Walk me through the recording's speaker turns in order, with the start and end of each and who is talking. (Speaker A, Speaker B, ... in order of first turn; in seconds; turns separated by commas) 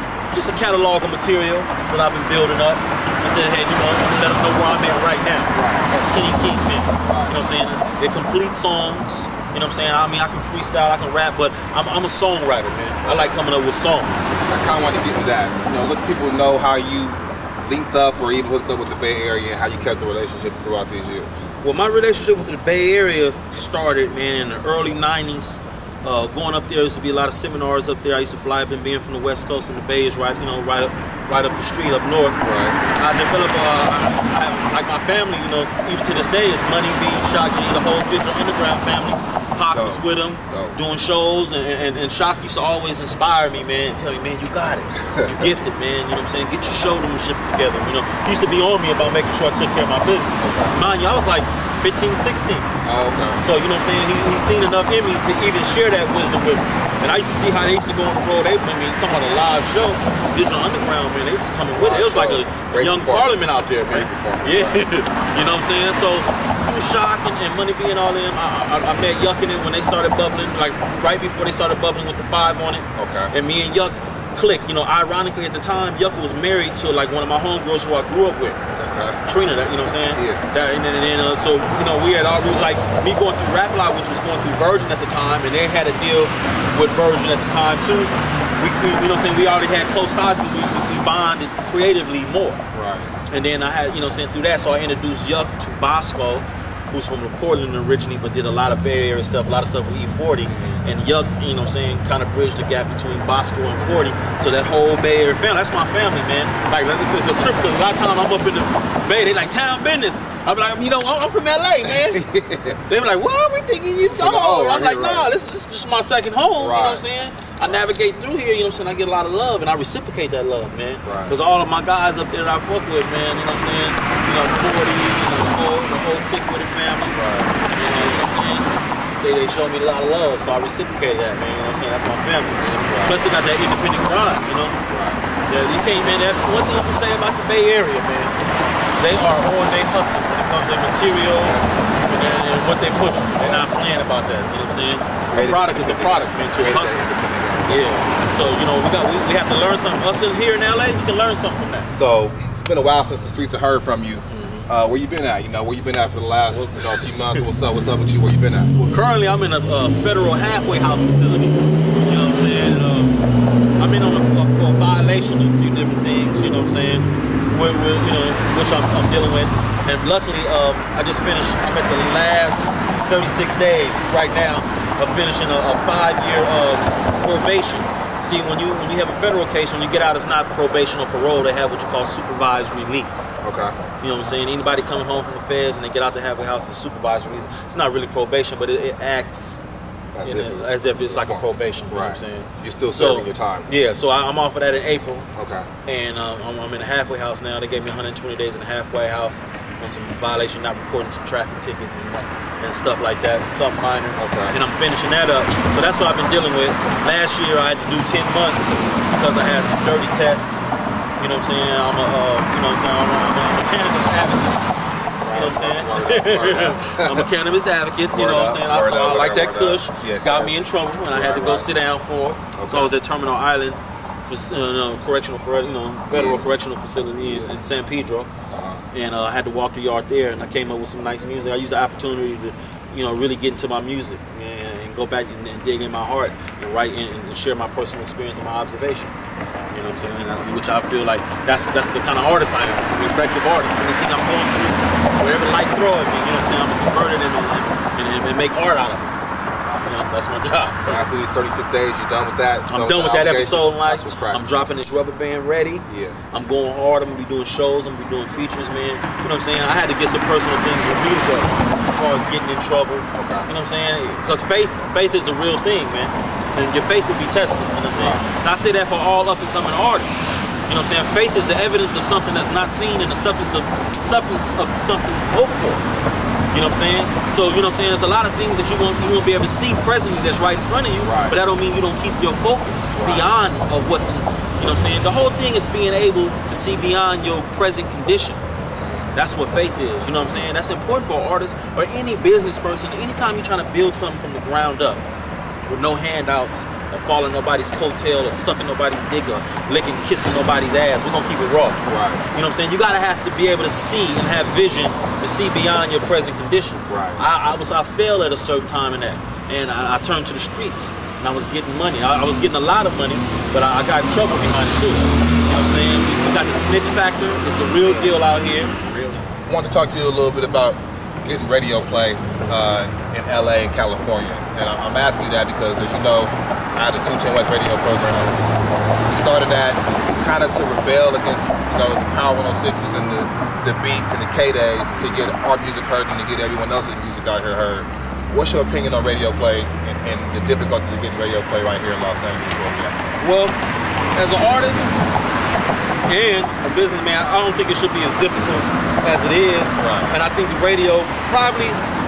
Speaker A: 0.3-14.3, Speaker B: 5.5-5.9, Speaker B: 7.0-7.3, Speaker B: 13.0-13.4, Speaker B: 14.4-21.4, Speaker A: 21.6-52.7, Speaker B: 32.4-32.8, Speaker B: 39.6-40.8, Speaker B: 45.0-45.5, Speaker B: 50.4-50.8, Speaker B: 52.8-53.4, Speaker A: 53.4-78.6, Speaker B: 61.7-65.2, Speaker B: 72.9-73.3, Speaker B: 78.7-79.2, Speaker A: 79.2-92.6, Speaker B: 80.1-80.4, Speaker B: 92.7-93.1, Speaker A: 93.3-112.2, Speaker B: 100.5-100.8, Speaker B: 111.8-112.8, Speaker A: 112.8-127.2, Speaker B: 114.1-115.3, Speaker B: 116.6-117.0, Speaker B: 117.6-117.9, Speaker B: 121.0-121.3, Speaker B: 127.1-127.5, Speaker A: 127.7-128.7, Speaker A: 129.2-134.8, Speaker B: 132.8-133.3, Speaker B: 134.9-135.2, Speaker A: 135.5-138.3, Speaker A: 139.0-147.1, Speaker B: 141.4-141.9, Speaker B: 143.4-143.7, Speaker B: 145.3-147.9, Speaker A: 147.7-151.9, Speaker B: 151.9-158.7, Speaker A: 154.3-154.7, Speaker A: 156.5-157.4, Speaker A: 158.7-163.2, Speaker A: 163.8-183.3, Speaker B: 183.4-183.8, Speaker A: 184.0-189.7, Speaker B: 190.1-193.7, Speaker A: 190.2-195.3, Speaker B: 195.3-195.7, Speaker A: 195.8-210.6, Speaker B: 204.2-204.6, Speaker A: 211.2-214.6, Speaker B: 215.2-217.3, Speaker A: 215.3-228.3, Speaker B: 218.1-221.7, Speaker B: 222.5-222.9, Speaker B: 226.1-226.4, Speaker B: 227.2-227.5, Speaker B: 228.5-228.9, Speaker A: 228.9-239.1, Speaker A: 239.7-249.2, Speaker B: 249.5-249.9, Speaker A: 249.8-251.1, Speaker B: 250.8-254.4, Speaker A: 252.7-275.8, Speaker B: 255.9-256.1, Speaker B: 263.1-263.5, Speaker B: 267.9-268.2, Speaker A: 276.5-288.4, Speaker B: 281.0-281.4, Speaker B: 282.9-283.3, Speaker B: 288.7-289.1, Speaker A: 289.1-295.1, Speaker A: 295.6-301.8, Speaker B: 301.9-302.2, Speaker A: 302.3-318.7, Speaker B: 306.9-307.2, Speaker B: 317.8-318.1, Speaker B: 318.8-328.4, Speaker B: 329.1-343.0, Speaker A: 343.2-343.6, Speaker A: 344.1-345.0, Speaker A: 346.1-351.8, Speaker B: 349.8-350.1